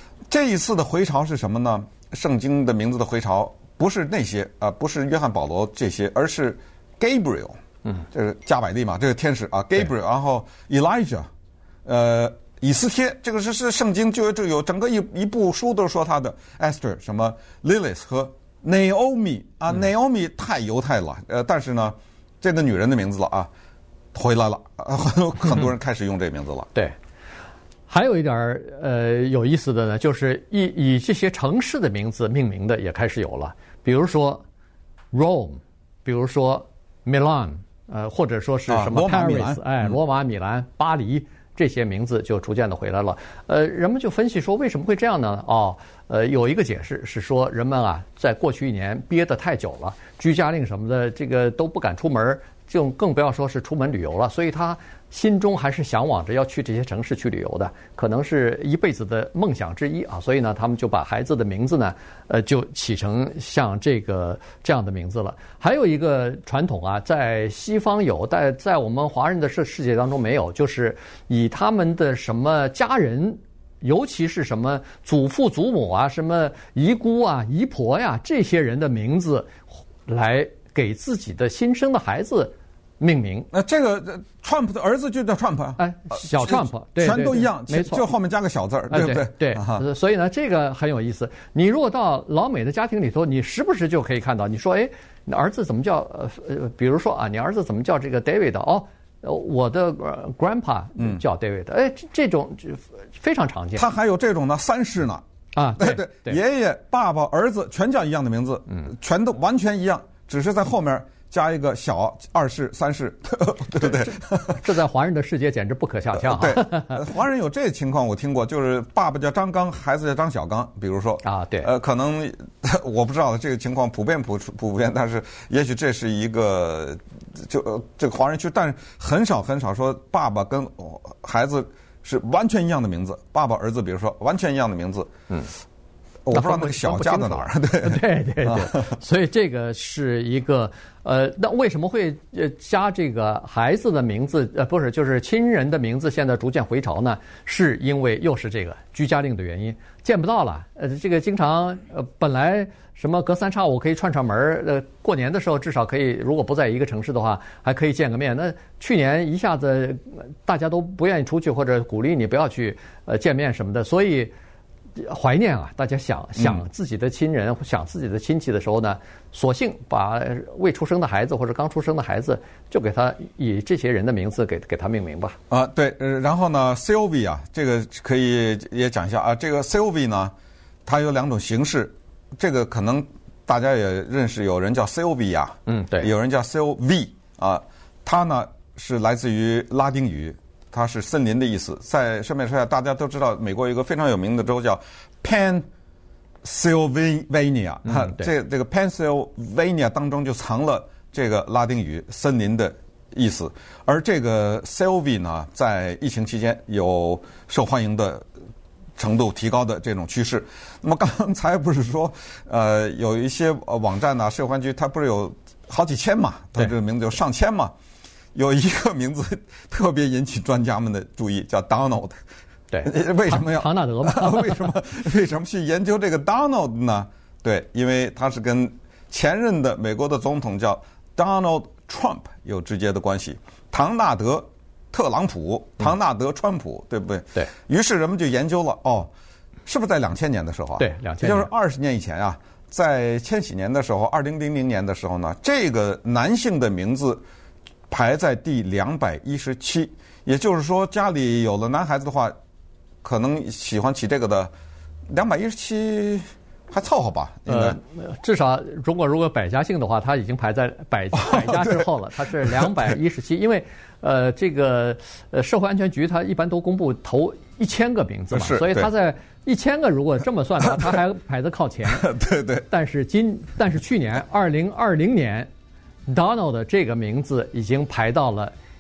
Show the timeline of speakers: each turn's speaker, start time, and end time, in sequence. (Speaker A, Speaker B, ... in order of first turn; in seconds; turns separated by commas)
Speaker A: 0.3-7.6, Speaker A: 8.1-11.3, Speaker A: 11.8-23.5, Speaker A: 24.1-26.7, Speaker B: 27.9-34.4, Speaker B: 35.1-79.5, Speaker A: 38.7-40.0, Speaker B: 80.1-83.5, Speaker A: 83.5-89.8, Speaker B: 85.8-88.1, Speaker B: 88.9-103.9, Speaker A: 103.8-105.2, Speaker B: 105.5-106.4, Speaker A: 105.8-114.6, Speaker B: 113.8-117.0, Speaker A: 116.2-135.1, Speaker B: 121.2-121.7, Speaker A: 136.3-139.0, Speaker B: 136.3-164.3, Speaker B: 165.0-175.4, Speaker A: 166.4-166.6, Speaker A: 175.5-180.3, Speaker A: 180.9-195.7, Speaker B: 185.7-186.1, Speaker A: 196.4-208.2, Speaker B: 197.9-198.3, Speaker A: 209.0-217.7, Speaker A: 218.3-222.2, Speaker B: 222.7-224.8, Speaker A: 222.8-239.1, Speaker A: 239.7-247.2, Speaker B: 240.8-241.5, Speaker A: 247.9-252.3, Speaker A: 253.0-254.5, Speaker A: 255.1-257.8, Speaker B: 257.5-272.1, Speaker A: 261.1-262.9, Speaker A: 268.3-268.9, Speaker A: 271.9-272.7, Speaker B: 272.7-275.5, Speaker B: 276.1-278.5